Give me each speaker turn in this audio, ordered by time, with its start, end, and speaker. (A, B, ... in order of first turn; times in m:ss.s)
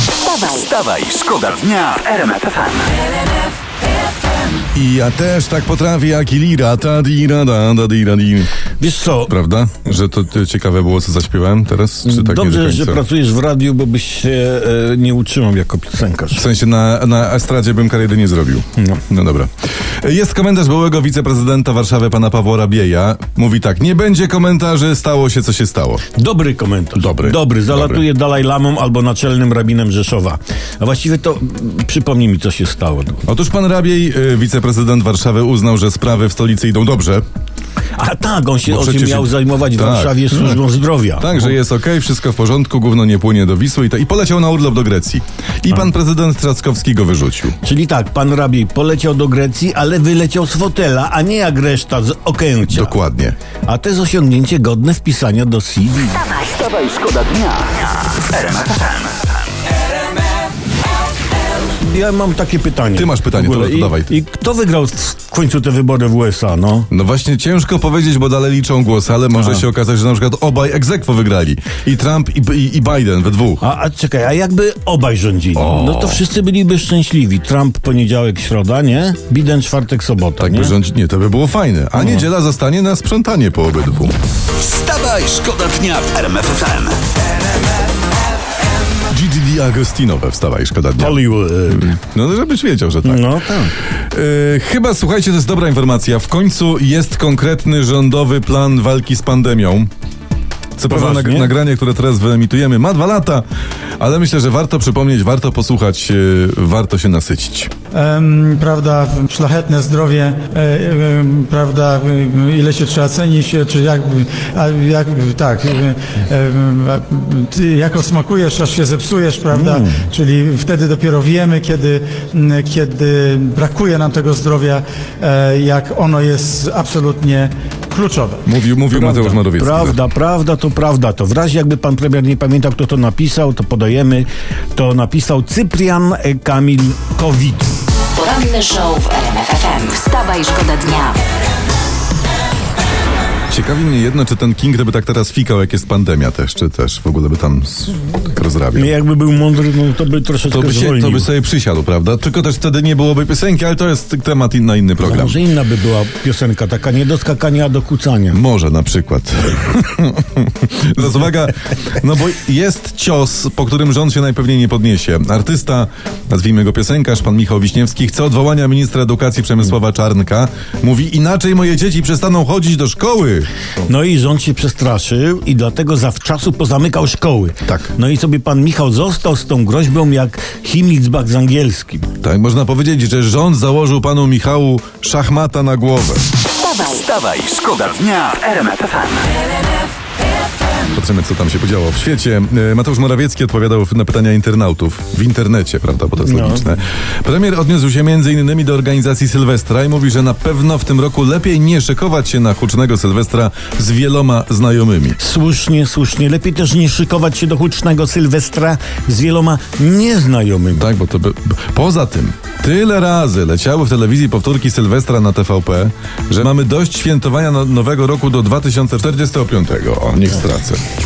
0:00.2-0:00.7 A
0:00.4-0:03.0 B
0:04.7-0:08.6 C
0:08.8-0:09.3 D
0:09.2-0:13.0 C
0:12.0-0:16.4 D
0:16.3-0:26.0 C
0:26.2-0:33.2 D
0:27.0-0:28.0 C
0:33.3-0:37.2 C
0:38.0-0:41.5 D
0:38.6-0:40.6 C
0:41.2-0:47.6 C
0:47.6-0:53.0 D
0:52.7-0:53.4 C
0:53.6-0:56.4 D
0:56.4-0:59.3 B
1:01.8-1:06.9 D
1:03.0-1:04.1 C
1:06.9-1:13.6 C
1:09.4-1:09.6 D
1:13.6-1:20.7 D
1:15.6-1:16.2 C
1:20.4-1:24.1 C
1:22.0-1:22.3 D
1:24.5-1:27.0 B
1:29.1-1:33.3 C
1:31.0-1:32.0 D
1:33.0-1:33.7 D
1:34.0-1:39.9 C
1:40.8-1:43.4 C
1:40.9-1:41.5 D
1:44.0-1:47.7 C
1:47.9-2:08.4 E
1:59.5-2:00.0 D
2:08.4-2:10.0 C
2:08.9-2:17.7 D
2:18.2-2:21.2 A
2:23.5-2:28.9 C
2:28.7-2:31.3 D
2:30.5-2:35.4 C
2:35.0-2:38.4 D
2:38.3-2:53.5 C
2:53.8-3:02.1 D
2:57.6-2:57.9 C
3:02.2-3:06.2 C
3:06.6-3:07.0 A
3:06.8-3:09.4 B
3:10.9-3:25.2 C
3:16.2-3:16.6 D
3:25.2-3:30.9 D
3:30.8-3:40.8 C